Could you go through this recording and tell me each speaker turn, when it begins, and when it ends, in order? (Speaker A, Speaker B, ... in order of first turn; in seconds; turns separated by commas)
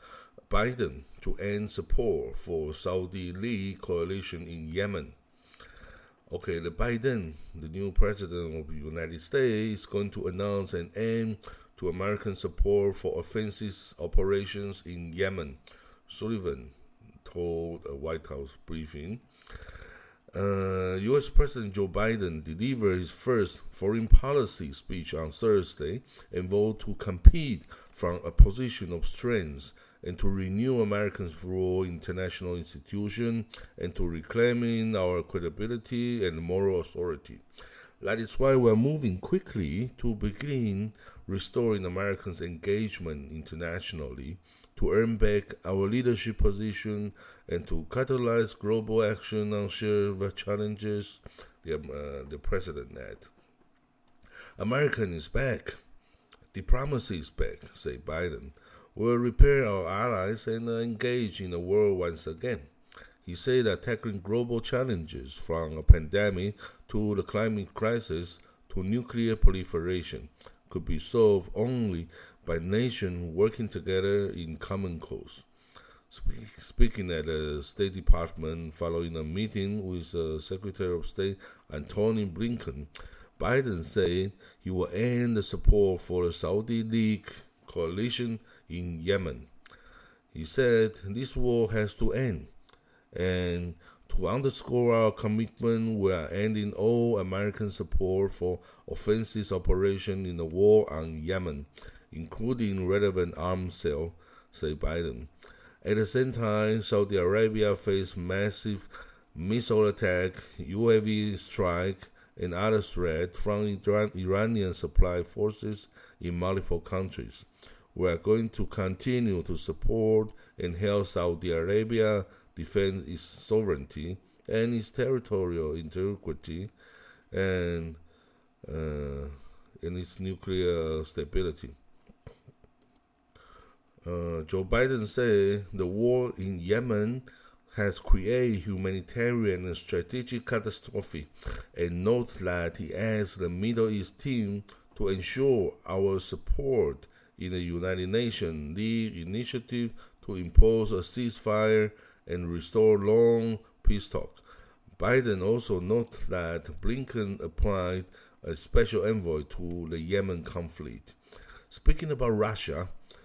Speaker A: 0.5-5.2, Speaker A: 6.3-19.8, Speaker A: 20.3-37.4, Speaker A: 38.0-53.3, Speaker A: 54.6-55.8, Speaker A: 56.5-62.7, Speaker A: 63.2-75.5, Speaker A: 76.1-89.5, Speaker A: 90.3-92.5, Speaker A: 93.1-105.3, Speaker A: 105.8-126.7, Speaker A: 127.3-128.0, Speaker A: 128.6-131.8, Speaker A: 134.0-154.4, Speaker A: 155.0-161.2, Speaker A: 161.7-162.9